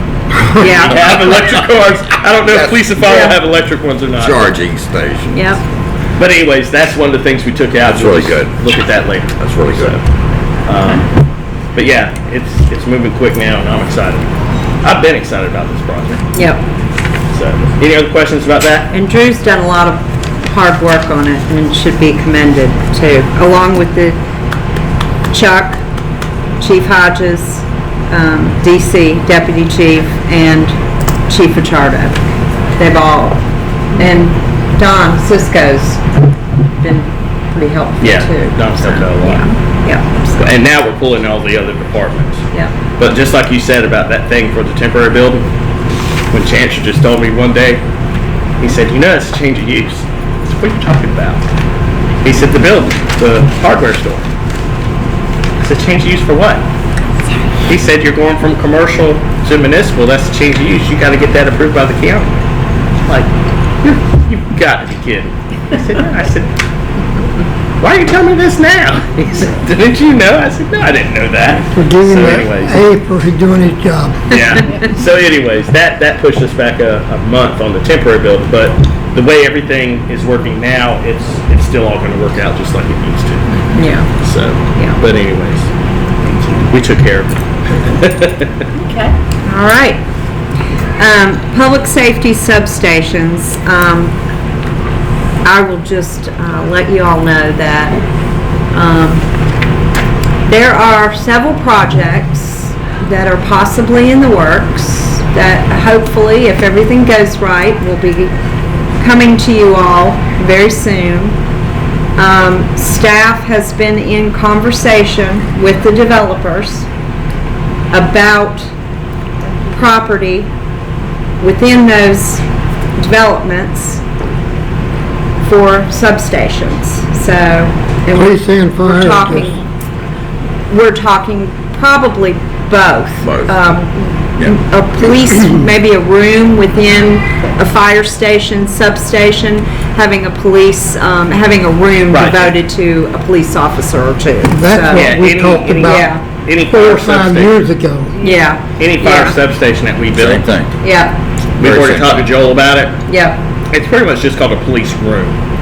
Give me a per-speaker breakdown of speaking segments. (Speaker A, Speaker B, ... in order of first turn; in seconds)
Speaker A: 0.4-1.8, 2.4-3.2, 4.2-5.6, 7.8-8.5, 9.4-9.9, 133.2-133.6, 150.1-150.7, 151.6-152.3
Speaker B: 0.5-1.5, 3.0-3.4, 5.3-5.6, 16.3-16.6, 18.9-24.2, 25.3-25.8, 26.6-30.8, 31.3-32.2, 32.8-33.4, 33.9-36.0, 36.8-40.5, 83.7-84.1, 86.2-86.7, 88.8-90.0, 91.0-94.2, 95.4-98.0, 98.7-99.2, 100.5-108.3, 109.0-111.4, 112.2-116.9, 117.9-118.7, 119.7-120.5, 121.4-122.4, 123.0-124.0, 125.4-129.7, 130.7-145.2, 145.8-146.2, 148.2-149.3, 150.8-151.2, 153.1-153.4
Speaker C: 0.7-4.5, 6.2-10.0, 10.7-11.1, 11.7-14.3, 14.8-16.3, 17.3-18.9, 38.0-39.5, 40.4-42.4, 43.0-45.5, 46.3-47.8, 48.6-51.4, 52.2-54.2, 55.6-56.7, 57.7-62.3, 63.0-63.3, 63.8-66.5, 67.8-72.8, 74.3-83.6, 84.2-85.7, 86.7-88.6, 142.1-142.5, 144.9-147.6, 148.2-150.4, 151.6-153.0, 153.7-155.3
Speaker D: 71.7-74.3, 128.1-129.6, 144.5-146.1, 146.7-148.2